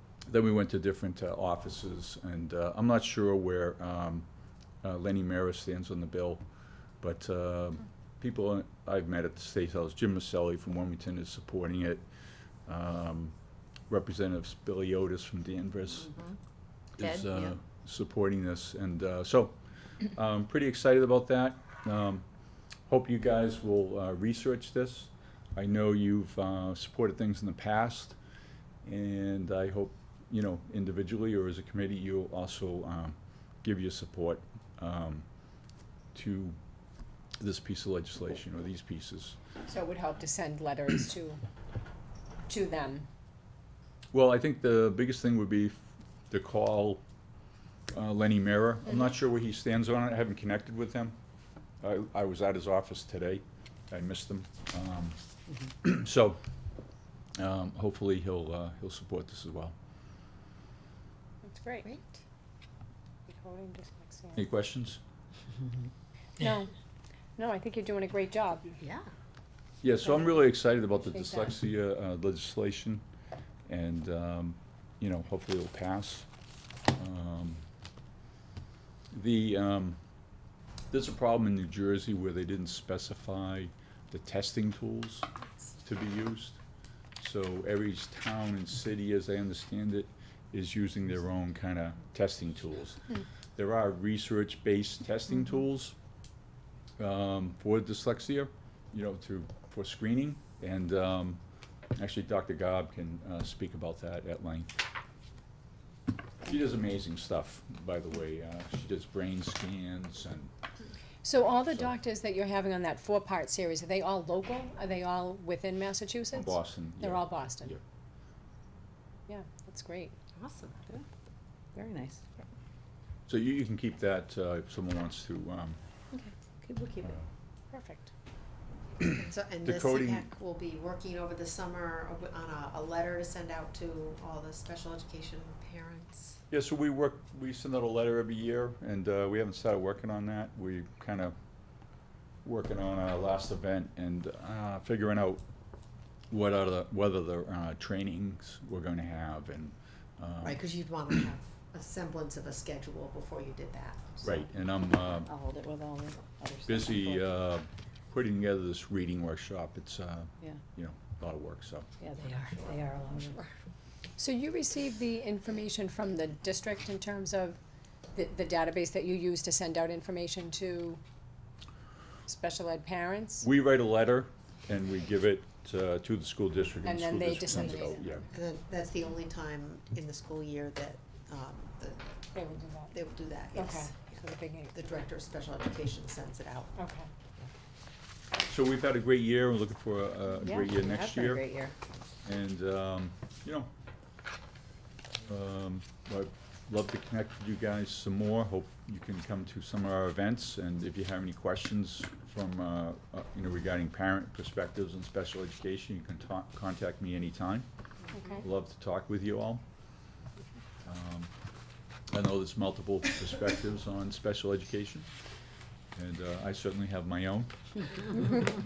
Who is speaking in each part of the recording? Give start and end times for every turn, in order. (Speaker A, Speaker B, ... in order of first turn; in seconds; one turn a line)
Speaker A: 0.2-4.3
Speaker A: 4.8-6.4
Speaker A: 7.0-12.0
Speaker A: 12.7-13.3
Speaker A: 13.9-16.1
Speaker B: 16.1-16.4
Speaker A: 17.0-19.6
Speaker B: 17.0-17.5
Speaker A: 20.1-22.2
Speaker A: 22.9-28.2
Speaker A: 28.8-35.3
Speaker A: 36.1-36.6
Speaker A: 37.4-39.4
Speaker C: 39.7-41.4
Speaker C: 42.5-43.1
Speaker A: 44.1-47.0
Speaker A: 47.9-51.2
Speaker A: 51.8-55.2
Speaker A: 55.8-56.4
Speaker A: 57.4-59.8
Speaker C: 61.4-62.0
Speaker C: 63.3-64.5
Speaker A: 64.3-65.0
Speaker C: 66.4-66.7
Speaker C: 67.4-68.7
Speaker D: 68.8-69.1
Speaker A: 69.8-73.0
Speaker C: 71.0-71.5
Speaker A: 73.7-76.3
Speaker A: 76.9-77.7
Speaker A: 79.1-80.0
Speaker A: 80.9-85.3
Speaker A: 85.8-86.6
Speaker A: 87.2-96.0
Speaker A: 97.0-101.4
Speaker A: 102.0-104.8
Speaker A: 106.5-110.5
Speaker C: 111.2-117.8
Speaker A: 116.3-117.8
Speaker C: 119.3-120.2
Speaker D: 120.3-120.8
Speaker B: 121.8-122.3
Speaker A: 123.3-125.8
Speaker B: 126.1-127.1
Speaker C: 127.7-128.1
Speaker D: 129.0-136.4
Speaker A: 129.6-130.3
Speaker A: 136.5-141.3
Speaker A: 142.4-145.4
Speaker A: 146.3-150.6
Speaker D: 150.4-154.3
Speaker A: 154.2-155.3
Speaker B: 155.3-157.3
Speaker A: 156.7-161.9
Speaker B: 162.0-163.4
Speaker C: 164.2-167.6
Speaker C: 168.1-171.0
Speaker C: 172.3-173.5
Speaker A: 173.4-178.2
Speaker C: 176.8-178.0
Speaker D: 178.3-182.1
Speaker C: 182.3-183.0
Speaker D: 182.9-184.2
Speaker C: 183.5-184.8
Speaker D: 184.7-186.8
Speaker C: 186.8-187.1
Speaker A: 188.5-191.5
Speaker B: 190.4-191.8
Speaker A: 192.2-193.7
Speaker A: 195.2-207.7
Speaker C: 208.1-208.4
Speaker A: 208.4-209.6
Speaker A: 210.8-211.3
Speaker A: 212.1-215.1
Speaker A: 215.9-217.6